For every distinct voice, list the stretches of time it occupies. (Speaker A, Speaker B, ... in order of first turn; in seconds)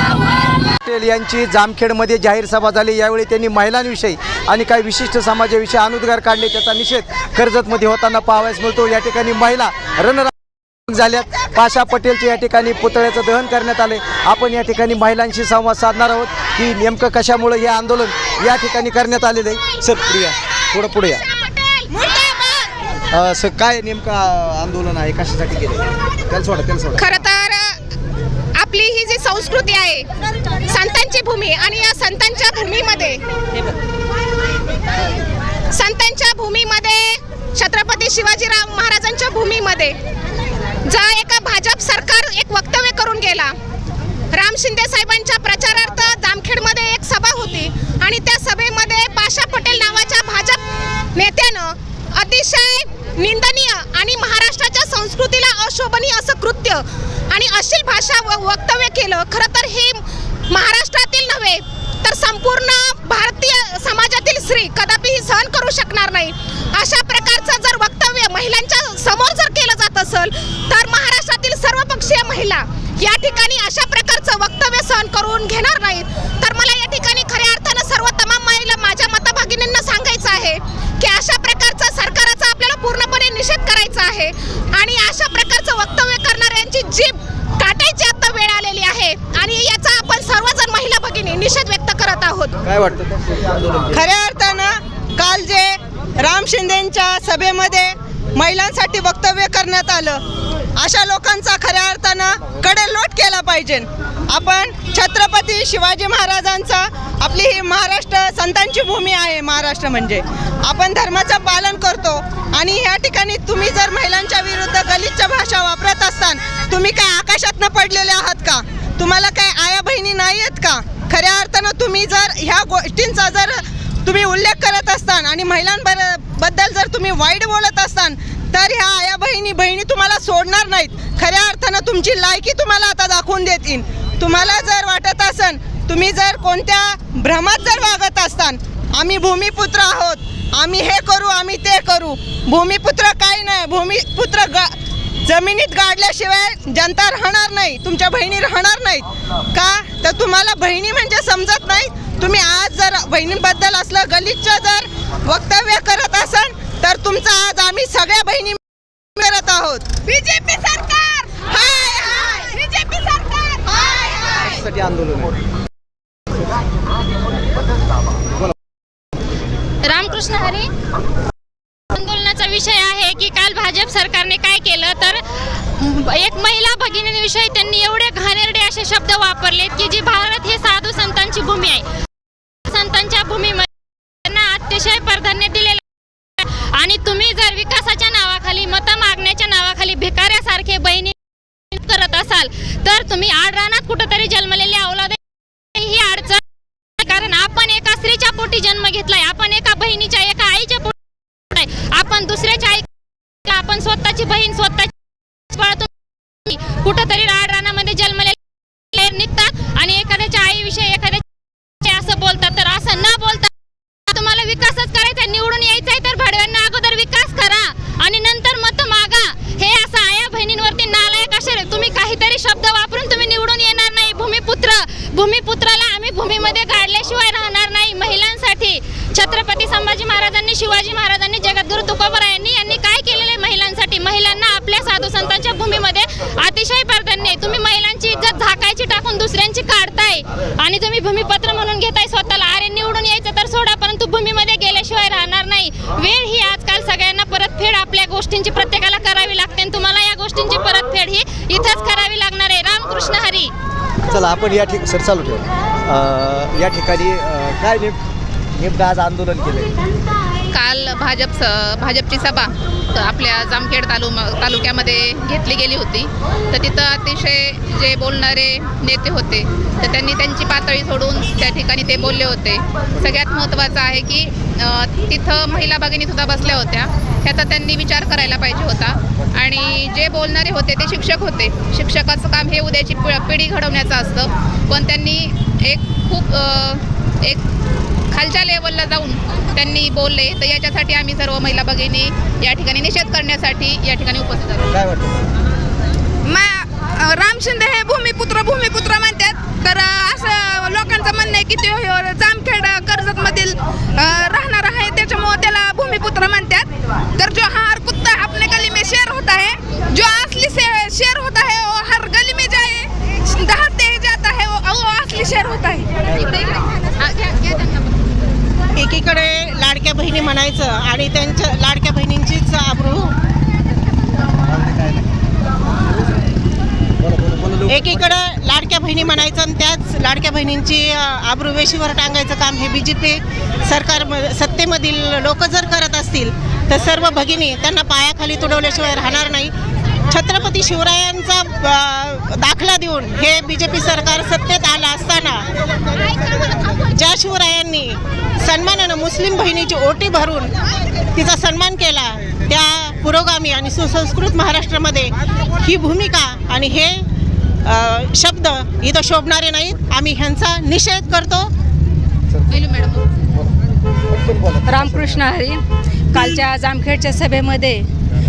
Speaker A: 0.7-10.3, 10.9-21.2, 23.1-27.0, 92.7-93.9, 164.5-165.3, 254.1-258.0, 258.6-259.7
Speaker B: 21.1-22.7, 27.0-27.8, 28.6-30.1, 30.7-33.2, 35.7-39.9, 40.9-43.5, 44.3-50.6, 51.1-92.5, 159.9-161.4, 162.5-164.4
Speaker C: 93.9-100.2, 100.8-144.7, 145.2-158.6, 159.2-159.9, 161.4-162.5
Speaker D: 169.8-170.7, 171.9-175.2, 175.8-181.8, 182.7-183.7, 184.2-185.8, 186.4-191.1, 191.7-195.2, 195.8-196.4, 197.0-200.9, 201.5-202.9, 203.4-204.9, 205.5-205.9, 206.4-208.4, 208.9-211.2, 211.8-213.5, 214.1-253.5
Speaker E: 260.5-287.4, 288.1-294.8, 317.2-317.8, 362.5-363.0
Speaker F: 296.2-316.7
Speaker G: 318.8-323.1, 327.6-339.5, 340.1-345.5, 346.3-350.5, 351.1-356.9, 357.6-361.5
Speaker H: 364.6-365.6, 366.1-367.8